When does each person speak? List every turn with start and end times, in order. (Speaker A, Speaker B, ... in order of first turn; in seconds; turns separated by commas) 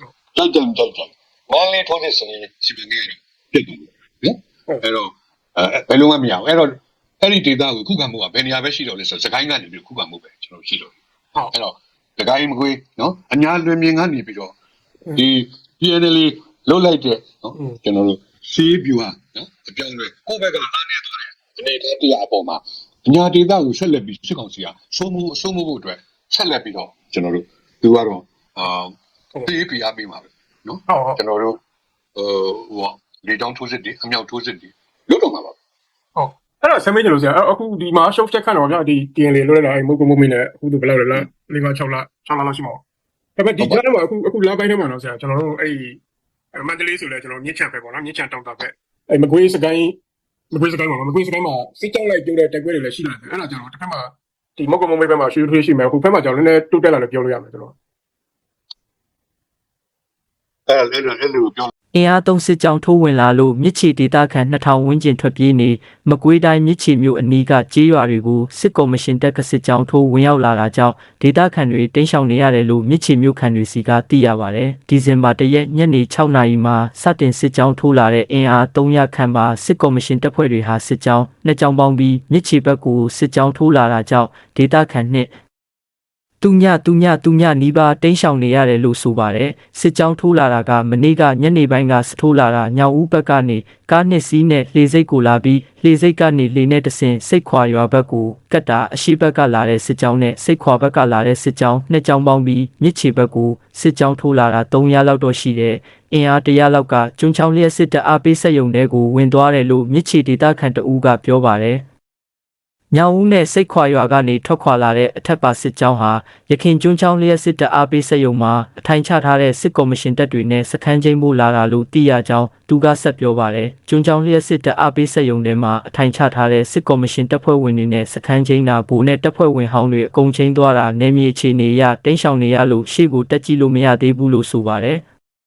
Speaker A: 0.3-11.0, Speaker A: 11.5-14.5, Speaker A: 15.1-28.9, Speaker A: 29.4-31.6, Speaker B: 30.9-31.2, Speaker A: 32.1-35.5, Speaker B: 36.1-42.8, Speaker B: 43.4-46.0, Speaker B: 46.5-50.0, Speaker B: 50.5-57.7, Speaker A: 60.7-61.7, Speaker C: 61.9-85.3, Speaker C: 86.4-111.8, Speaker C: 112.9-135.0